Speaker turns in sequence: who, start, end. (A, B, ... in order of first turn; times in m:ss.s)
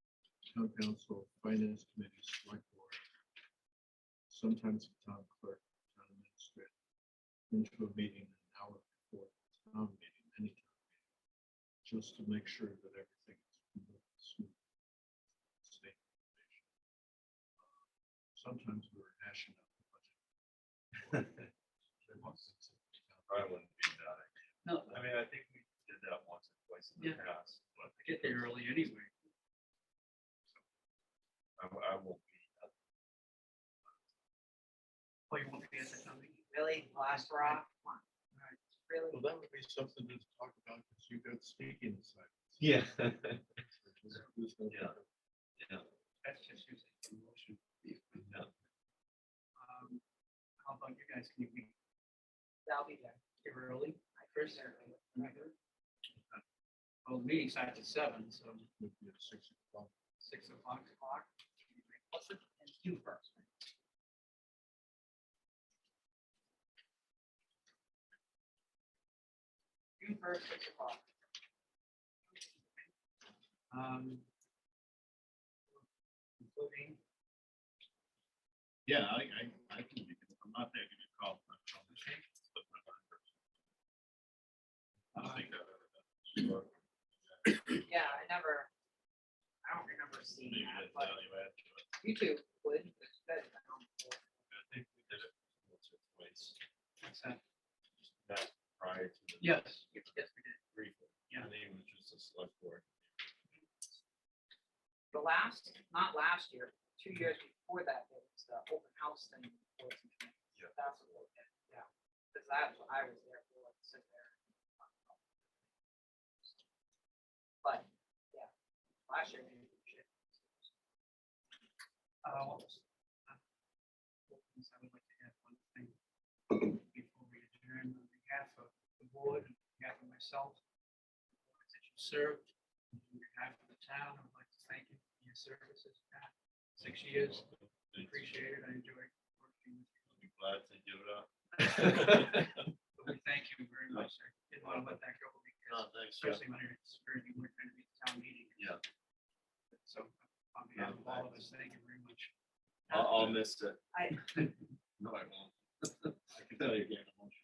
0:00.4-0:03.0 A
0:04.3-0:06.7 A
0:07.5-0:10.8 A
0:11.8-0:14.6 A
0:15.6-0:16.6 A
0:18.3-0:20.2 A
0:21.0-0:21.4 A
0:22.0-0:23.3 A
0:23.3-0:28.4 B
0:24.6-0:25.1 C
0:27.0-0:27.2 C
0:27.9-0:29.1 C
0:31.6-0:32.7 B
0:35.3-0:37.6 C
0:36.5-0:38.0 D
0:38.8-0:39.2 D
0:39.1-0:42.6 A
0:42.6-0:43.6 B
0:43.5-0:45.1 A
0:44.7-0:45.0 B
0:45.6-0:45.9 B
0:46.2-0:48.2 C
0:48.1-0:48.5 B
0:49.6-0:50.0 C
0:50.6-0:51.7 C
0:52.6-0:53.2 D
0:53.4-0:55.5 C
0:54.2-0:55.4 D
0:57.0-0:58.7 C
0:58.8-0:59.9 A
1:00.2-1:02.0 C
1:02.1-1:03.4 D
1:10.0-1:11.0 D
1:13.7-1:14.3 C
1:16.4-1:17.0 C
1:18.8-1:23.3 B
1:21.9-1:22.2 C
1:25.1-1:25.5 C
1:25.1-1:26.7 B
1:27.3-1:28.2 B
1:27.8-1:28.7 D
1:29.6-1:31.2 D
1:30.4-1:31.9 B
1:32.0-1:34.2 D
1:34.5-1:36.6 B
1:37.0-1:37.4 C
1:38.2-1:43.3 B
1:39.4-1:40.6 C
1:45.1-1:55.2 D
1:57.6-1:58.5 D
1:59.0-2:00.7 D
2:02.2-2:03.4 C
2:04.3-2:06.0 C
2:06.5-2:10.6 C
2:11.5-2:20.0 C
2:16.8-2:18.3 B
2:20.1-2:22.6 B
2:21.6-2:28.8 C
2:23.9-2:25.0 B
2:25.7-2:26.4 B
2:28.6-2:28.8 B
2:29.7-2:32.3 C
2:30.8-2:31.4 B
2:32.9-2:33.3 C
2:32.9-2:33.8 B
2:33.9-2:34.2 D
2:35.0-2:37.1 B